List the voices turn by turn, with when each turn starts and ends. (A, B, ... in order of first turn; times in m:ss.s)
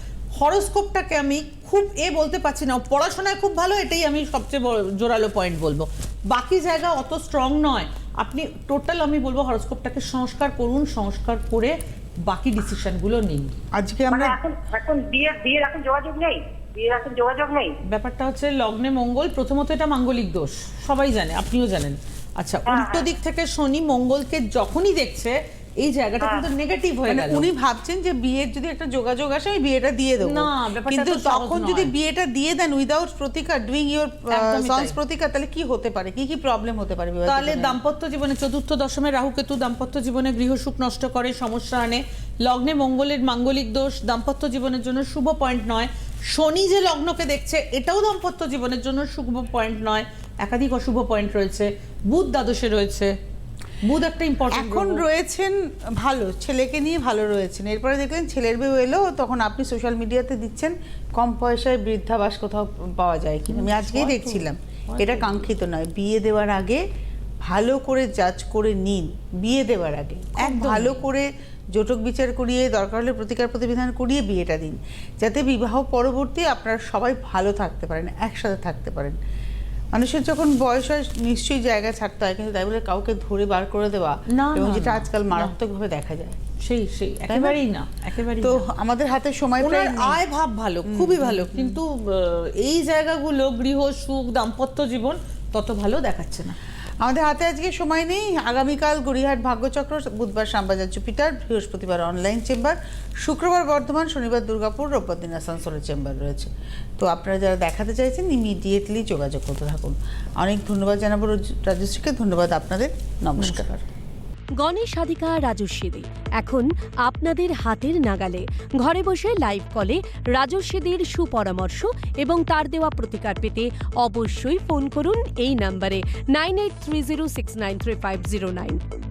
0:00.4-0:13.5 A
0:13.8-0:14.4 B
0:14.1-0:17.8 C
0:17.8-0:27.4 A
0:22.7-0:23.1 C
0:26.2-0:26.4 C
0:27.1-0:37.8 B
0:30.2-0:31.9 A
0:34.3-0:34.9 A
0:37.2-0:53.1 A
0:53.8-0:55.0 A
0:54.5-1:06.8 B
1:03.5-1:05.5 A
1:07.4-1:19.2 B
1:10.4-1:11.0 A
1:19.9-1:26.4 B
1:24.3-1:25.5 A
1:26.6-1:28.6 A
1:27.3-1:27.6 B
1:28.4-1:30.2 B
1:29.6-1:36.6 A
1:30.8-1:31.8 B
1:37.0-1:53.7 B
1:53.4-1:53.8 A
1:54.6-2:08.8 D